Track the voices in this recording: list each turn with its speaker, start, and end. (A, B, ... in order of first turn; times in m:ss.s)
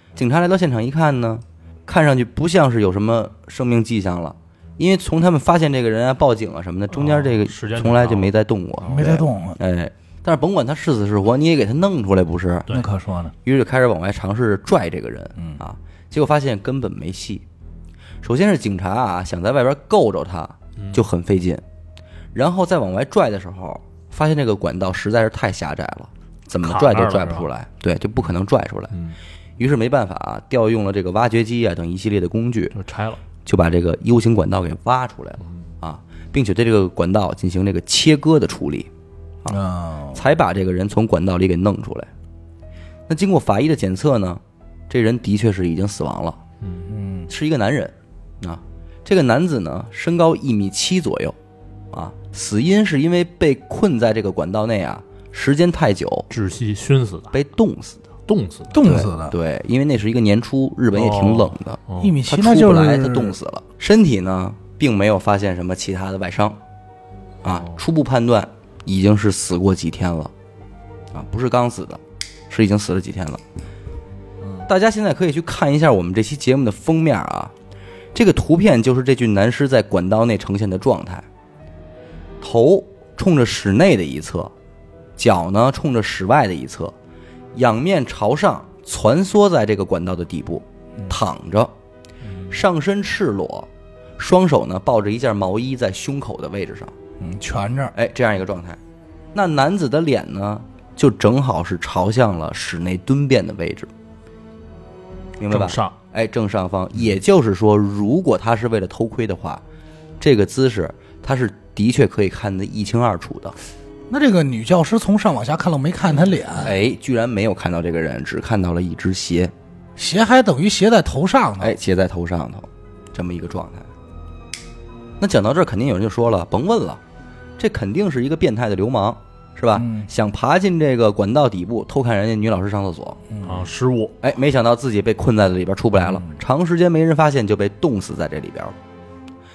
0:00.2-0:12.7 A
0:06.9-0:08.3 B
0:08.9-0:09.6 C
0:12.7-0:13.3 C
0:13.4-0:17.4 A
0:18.2-0:21.6 A
0:22.3-0:28.9 A
0:26.6-0:27.5 B
0:29.6-0:32.7 A
0:32.7-0:33.2 B
0:33.4-0:38.9 A
0:39.5-0:40.2 C
0:40.1-0:42.1 A
0:43.1-0:46.4 A
0:46.6-0:46.9 B
0:46.9-0:47.3 C
0:47.3-0:51.4 A
0:51.9-0:56.3 A
0:56.3-0:57.4 B
0:57.3-0:58.0 A
0:58.3-0:58.8 B
0:58.7-0:59.4 C
0:58.8-1:06.6 A
1:00.9-1:02.2 B
1:02.0-1:03.4 C
1:07.4-1:10.3 A
1:07.5-1:07.7 B
1:11.1-1:13.4 A
1:14.6-1:17.5 A
1:18.1-1:21.2 A
1:22.4-1:24.5 A
1:25.2-1:26.9 A
1:27.5-1:31.7 A
1:32.2-1:32.6 B
1:32.5-1:36.9 A
1:37.2-1:37.9 C
1:37.9-1:38.8 A
1:39.3-1:43.9 A
1:45.4-1:49.6 A
1:45.5-1:45.9 B
1:50.2-1:53.6 A
1:54.1-1:56.7 C
1:56.6-1:59.5 A
2:00.0-2:01.8 C
2:01.6-2:03.9 A
2:05.2-2:07.0 A
2:07.6-2:13.2 A
2:09.7-2:10.1 C
2:13.3-2:13.6 C
2:13.4-2:14.1 B
2:14.2-2:18.8 A